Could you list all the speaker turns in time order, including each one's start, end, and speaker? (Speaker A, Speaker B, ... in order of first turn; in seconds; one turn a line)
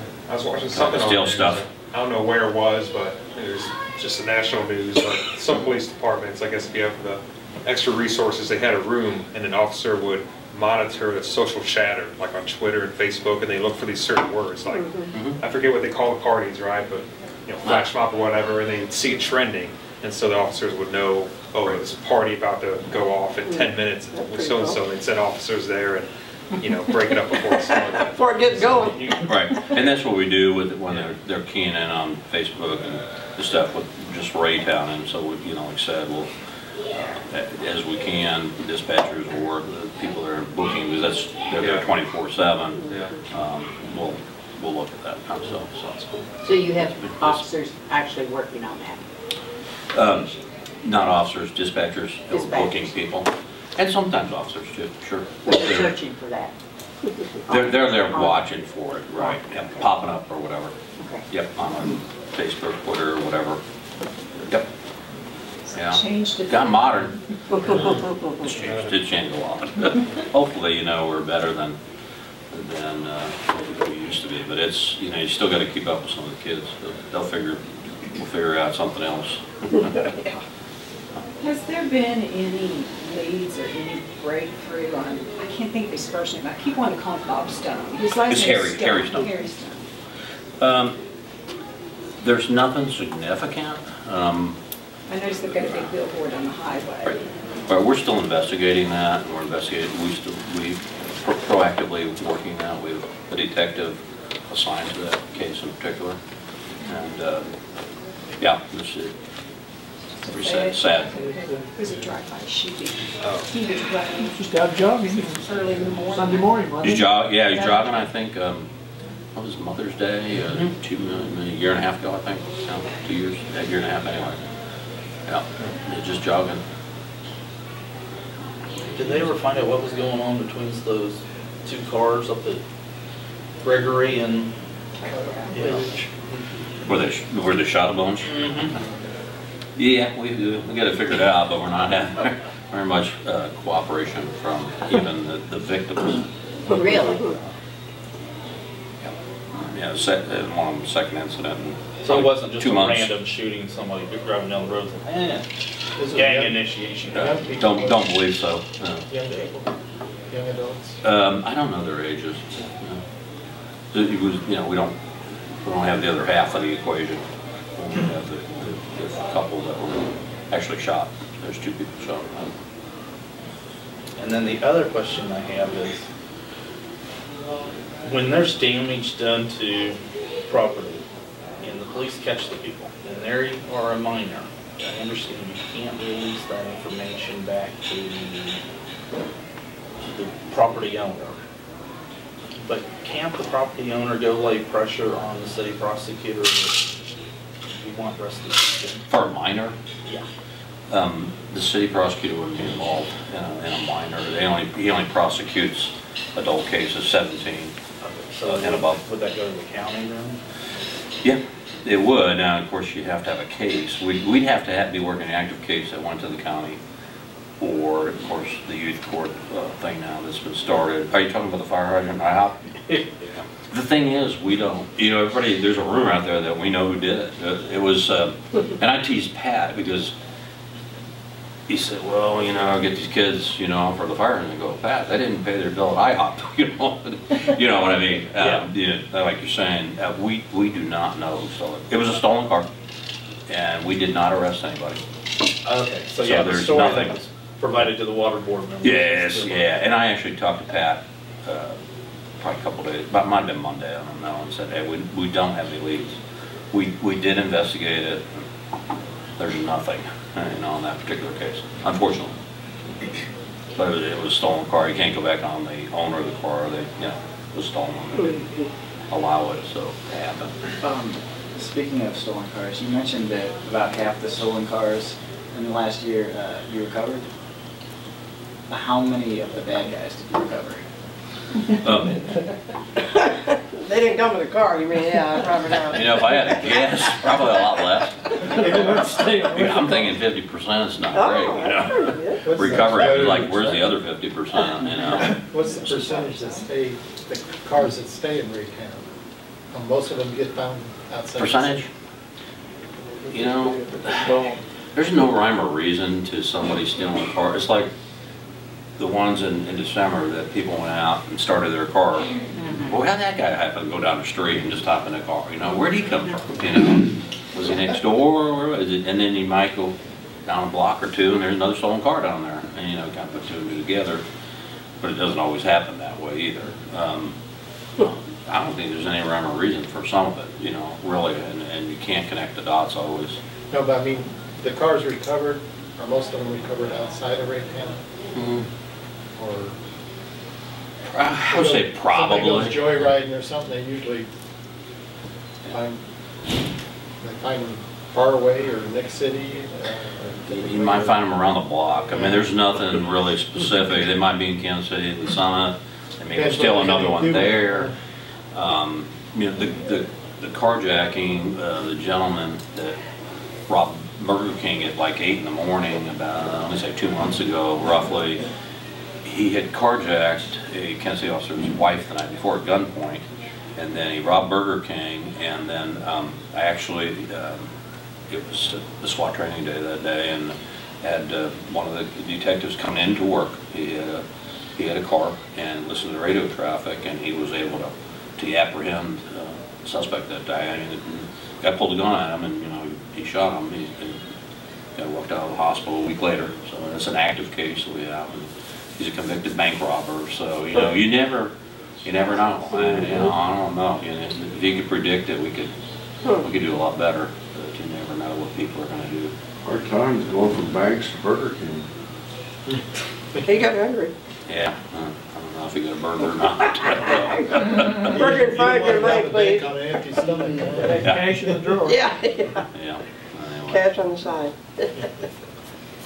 Speaker A: 0.2-26.1
Speaker B: 0.7-1.6
Speaker C: 14.7-15.1
Speaker B: 15.1-15.4
Speaker C: 23.5-24.8
Speaker A: 26.6-28.4
Speaker C: 27.9-29.1
Speaker B: 29.2-36.3
Speaker B: 36.9-47.5
Speaker A: 41.6-41.8
Speaker A: 42.9-43.1
Speaker D: 46.4-49.0
Speaker B: 49.9-50.3
Speaker B: 50.8-55.9
Speaker D: 52.3-52.9
Speaker D: 55.5-56.5
Speaker B: 57.5-60.7
Speaker D: 57.5-58.4
Speaker D: 61.0-61.2
Speaker B: 61.3-63.6
Speaker E: 65.7-66.9
Speaker B: 65.7-71.8
Speaker A: 68.6-68.9
Speaker B: 72.5-77.6
Speaker B: 78.1-80.0
Speaker E: 81.4-89.8
Speaker B: 88.3-89.3
Speaker B: 90.6-91.0
Speaker B: 92.2-94.6
Speaker E: 95.1-97.2
Speaker B: 95.5-95.9
Speaker B: 97.0-106.2
Speaker B: 106.8-107.5
Speaker B: 108.4-109.1
Speaker E: 110.2-114.4
Speaker B: 110.3-111.1
Speaker F: 111.1-111.7
Speaker A: 113.2-113.5
Speaker F: 114.2-115.4
Speaker E: 115.0-116.7
Speaker F: 116.0-117.1
Speaker B: 116.8-118.7
Speaker B: 119.3-124.4
Speaker B: 125.3-126.6
Speaker B: 128.9-129.2
Speaker G: 128.9-132.6
Speaker G: 133.6-134.5
Speaker E: 135.0-135.5
Speaker G: 135.5-136.0
Speaker B: 136.8-138.4
Speaker G: 138.2-138.8
Speaker B: 139.8-146.2
Speaker D: 146.7-147.3
Speaker B: 149.0-153.1
Speaker G: 152.0-155.5
Speaker H: 156.0-156.6
Speaker G: 156.0-157.4
Speaker B: 157.1-159.1
Speaker H: 157.1-158.1
Speaker H: 159.1-159.5
Speaker G: 159.2-159.6
Speaker H: 160.3-161.0
Speaker B: 161.0-163.0
Speaker B: 163.9-165.0
Speaker B: 165.6-167.2
Speaker B: 167.8-172.5
Speaker G: 174.2-176.0
Speaker G: 178.0-181.0
Speaker G: 181.6-188.6
Speaker G: 190.1-191.4
Speaker G: 192.6-196.9
Speaker G: 197.7-199.0
Speaker B: 199.1-199.8
Speaker B: 200.9-207.7
Speaker G: 208.0-210.4
Speaker B: 208.5-209.0
Speaker B: 211.2-216.8
Speaker B: 217.6-230.1
Speaker B: 231.7-242.7
Speaker G: 238.4-238.7
Speaker B: 243.5-245.0
Speaker G: 245.6-249.6
Speaker B: 246.2-247.2
Speaker B: 248.8-251.8
Speaker B: 252.4-256.2
Speaker B: 256.7-258.3
Speaker B: 259.4-262.3
Speaker B: 263.8-268.5
Speaker B: 269.1-270.5
Speaker I: 270.8-277.2
Speaker I: 278.7-280.8
Speaker B: 281.8-282.2
Speaker C: 283.1-286.3
Speaker B: 285.9-295.4
Speaker F: 288.3-290.1
Speaker H: 288.6-289.5
Speaker C: 291.1-292.7
Speaker H: 292.4-293.9
Speaker H: 295.2-299.0
Speaker H: 299.7-301.9
Speaker B: 301.4-301.9
Speaker F: 303.2-304.6
Speaker B: 303.3-304.3
Speaker B: 304.9-307.9
Speaker B: 309.0-312.3
Speaker D: 312.5-313.0
Speaker B: 312.8-319.9
Speaker B: 320.5-324.2
Speaker B: 325.0-327.4
Speaker B: 328.0-333.4
Speaker H: 333.7-338.0
Speaker B: 338.3-338.7
Speaker H: 339.4-339.8
Speaker B: 341.1-343.1
Speaker H: 341.4-344.3
Speaker H: 345.7-346.0
Speaker H: 347.2-351.2
Speaker B: 350.6-357.9
Speaker H: 352.1-352.4
Speaker H: 356.3-357.9
Speaker B: 358.5-363.0
Speaker B: 363.7-368.4
Speaker B: 369.2-373.2
Speaker B: 373.8-377.7
Speaker B: 378.3-384.2
Speaker B: 384.8-394.2
Speaker B: 395.0-401.5
Speaker B: 402.0-405.7
Speaker B: 406.3-409.3
Speaker J: 409.6-411.9
Speaker C: 413.4-414.1
Speaker B: 414.5-418.1
Speaker C: 417.9-419.7
Speaker H: 417.9-421.6
Speaker F: 420.6-422.1
Speaker C: 421.8-422.6
Speaker B: 422.7-423.9
Speaker C: 423.7-425.1